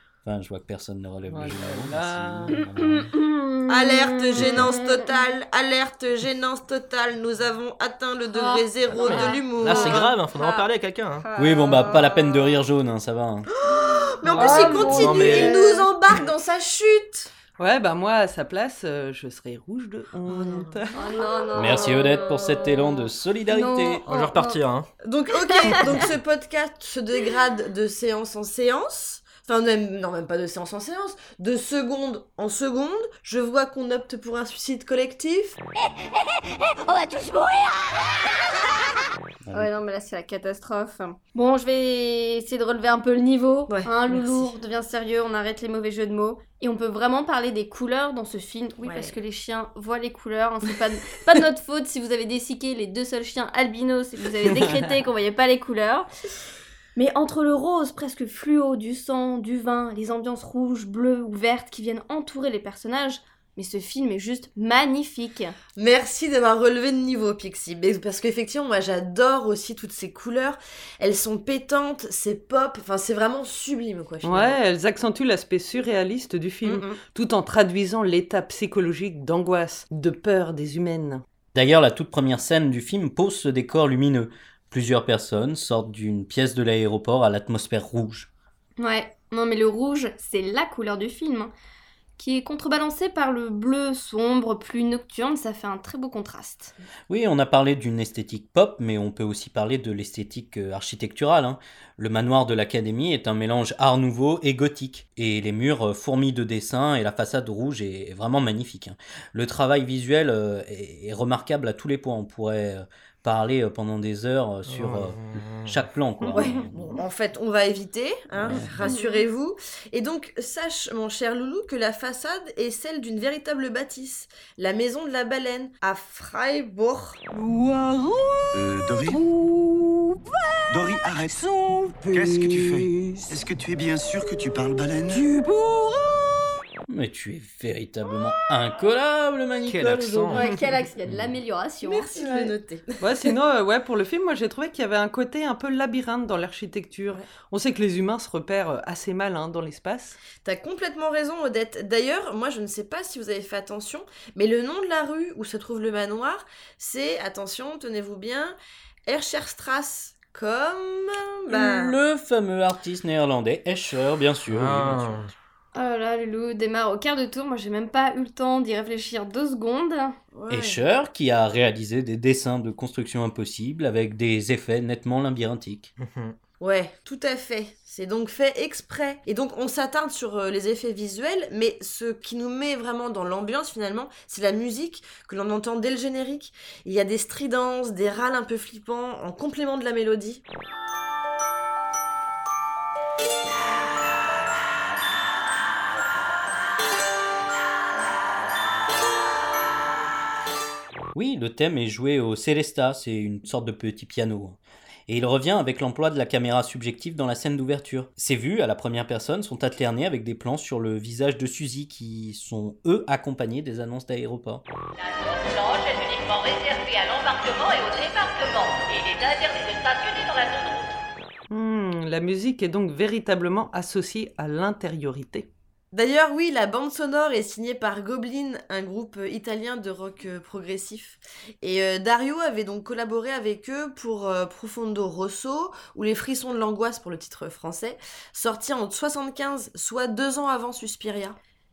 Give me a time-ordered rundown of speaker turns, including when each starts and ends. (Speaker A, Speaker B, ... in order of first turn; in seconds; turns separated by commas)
Speaker A: 0.2-3.1, Speaker B: 1.3-2.6, Speaker C: 2.7-5.1, Speaker D: 3.7-10.1, Speaker C: 8.3-10.7, Speaker E: 8.9-11.2, Speaker C: 11.2-12.5, Speaker A: 11.4-13.5, Speaker D: 13.5-17.3, Speaker B: 14.3-15.4, Speaker C: 14.3-15.8, Speaker E: 14.7-15.6, Speaker B: 17.6-21.0, Speaker D: 20.3-22.1, Speaker C: 20.9-24.6, Speaker A: 21.5-24.0, Speaker E: 24.1-24.9, Speaker D: 25.0-35.6, Speaker C: 39.5-56.1, Speaker D: 43.7-44.5, Speaker D: 48.8-49.1, Speaker C: 57.0-65.6, Speaker D: 65.8-74.6, Speaker B: 74.2-81.2, Speaker D: 76.6-77.0, Speaker A: 81.5-88.3, Speaker C: 88.8-91.5, Speaker C: 92.2-96.8, Speaker A: 97.1-117.0, Speaker E: 114.7-115.8, Speaker D: 116.3-127.2, Speaker A: 118.4-118.7, Speaker C: 118.8-119.2, Speaker F: 128.6-129.2, Speaker F: 130.7-131.4, Speaker F: 132.0-135.3, Speaker A: 136.9-140.4, Speaker E: 139.7-140.5, Speaker C: 140.3-142.5, Speaker A: 141.1-141.3, Speaker D: 141.8-143.3, Speaker B: 143.0-150.2, Speaker D: 150.4-162.0, Speaker A: 161.5-165.3, Speaker E: 164.5-165.3, Speaker C: 165.7-170.2, Speaker D: 170.3-170.8, Speaker A: 170.5-175.9, Speaker E: 176.0-176.3, Speaker D: 176.6-190.4, Speaker A: 201.1-214.6, Speaker G: 215.0-221.0, Speaker B: 221.5-225.5, Speaker D: 225.9-241.4